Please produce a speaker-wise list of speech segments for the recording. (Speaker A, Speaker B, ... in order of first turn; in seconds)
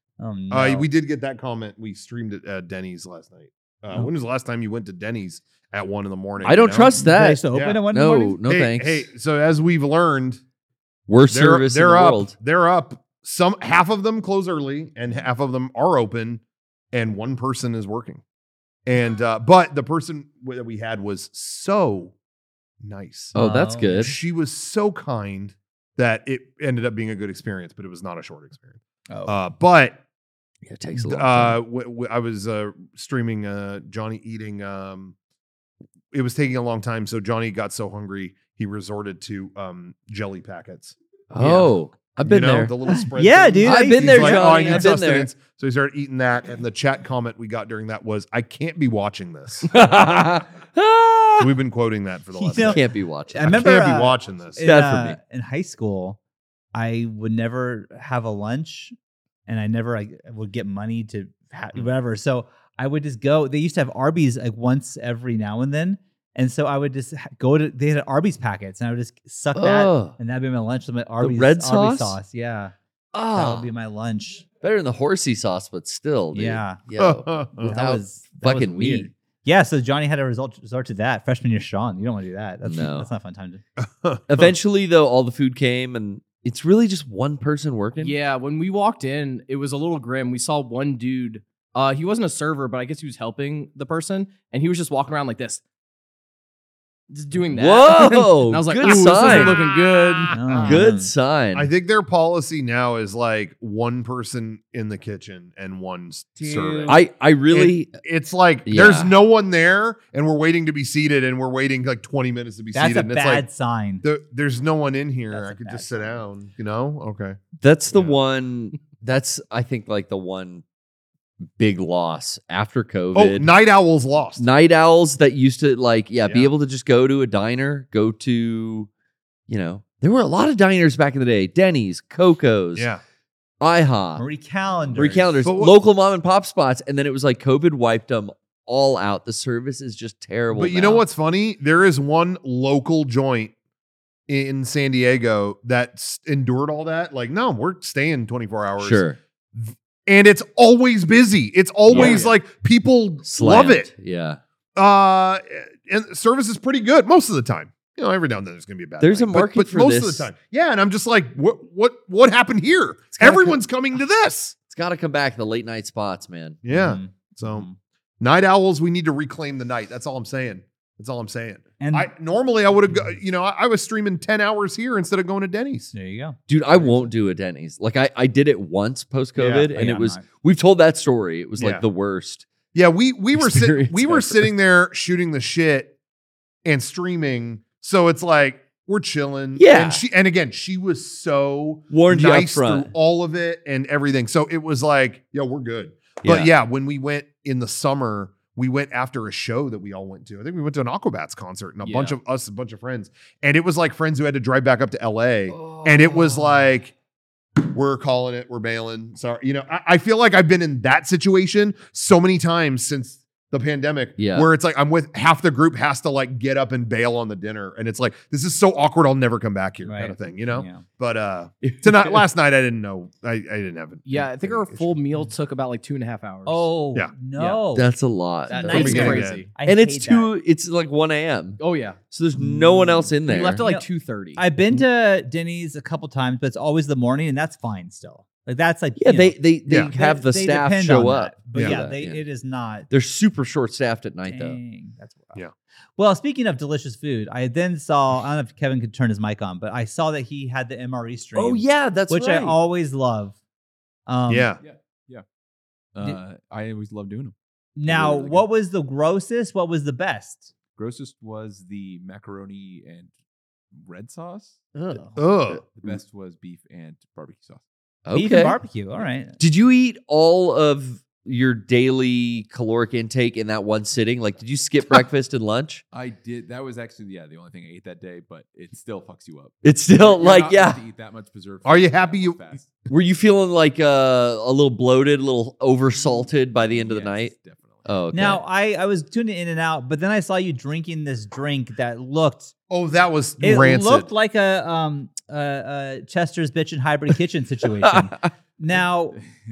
Speaker A: 0.2-0.9, 7.0-8.4, 23.4-24.1, 29.1-29.4, 42.9-44.9, 52.4-56.2, 56.7-59.0, 59.5-72.7, 73.3-74.5, 76.3-76.8, 77.6-83.6, 100.3-101.1, 106.4-107.0, 112.7-114.0, 115.3-116.2, 134.2-135.4, 166.7-167.8, 171.8-172.1, 175.9-177.1, 179.7-180.2, 219.8-220.8, 226.5-227.9, 228.5-230.3, 232.3-233.8, 234.4-242.9, 244.3-245.4, 246.0-253.4, 254.1-254.5, 257.8-260.5, 268.1-269.4, 288.1-292.5, 293.4-299.2
Speaker B: 0.5-6.9, 7.5-7.8, 8.4-10.4, 11.3-16.4, 16.9-18.2, 18.9-22.1, 22.8-23.4, 24.0-30.0, 31.0-35.1, 36.1-41.7, 42.2-49.7, 51.4-52.8, 53.4-54.6, 77.0-77.7, 83.8-84.5, 98.9-100.8, 101.5-113.5, 114.0-117.4, 117.9-118.2, 123.1-124.5, 126.2-126.5, 132.7-133.0, 135.4-135.8, 140.5-143.5, 144.3-153.9, 154.8-164.6, 166.6-167.7, 168.2-175.9, 179.4-179.7, 181.6-181.9, 182.7-185.9, 186.7-206.9, 207.6-224.9, 228.7-229.4, 239.7-239.9, 241.5-241.9, 254.3-254.6, 265.2-265.6, 281.6-282.4, 292.7-294.1
Speaker C: 6.4-9.0, 11.1-12.3, 23.3-24.2, 30.6-31.6, 41.3-42.7, 43.6-45.3, 49.7-51.5, 52.6-53.7, 54.6-55.2, 69.5-70.2, 71.2-72.2, 73.1-73.7, 74.6-79.1, 82.7-83.1, 84.3-88.2, 97.5-99.6, 100.6-101.7, 106.8-108.0, 108.7-109.1, 117.6-120.6, 121.5-123.5, 124.4-128.9, 129.5-132.9, 133.6-134.2, 134.9-141.0, 148.8-149.2, 151.9-152.2, 153.2-154.4, 159.0-160.3, 163.2-163.6, 164.7-166.6, 176.5-182.5, 183.3-184.5, 189.6-190.0, 191.9-192.9, 196.2-196.5, 205.5-206.5, 214.2-214.5, 221.6-222.2, 227.7-233.7, 239.0-242.2, 242.9-244.6, 251.3-252.6, 264.8-265.0, 268.1-268.6, 269.4-275.8, 279.6-280.8, 282.9-287.3, 287.9-288.4, 297.9-298.3
Speaker D: 88.0-95.6, 97.1-100.4, 151.9-152.4, 201.8-202.2, 224.1-226.7, 228.5-229.5, 231.6-232.0, 233.3-234.4
Speaker E: 254.6-255.2, 255.9-257.3, 257.9-258.4, 260.8-263.1, 263.8-264.7, 265.5-267.6, 275.9-282.9, 286.0-288.0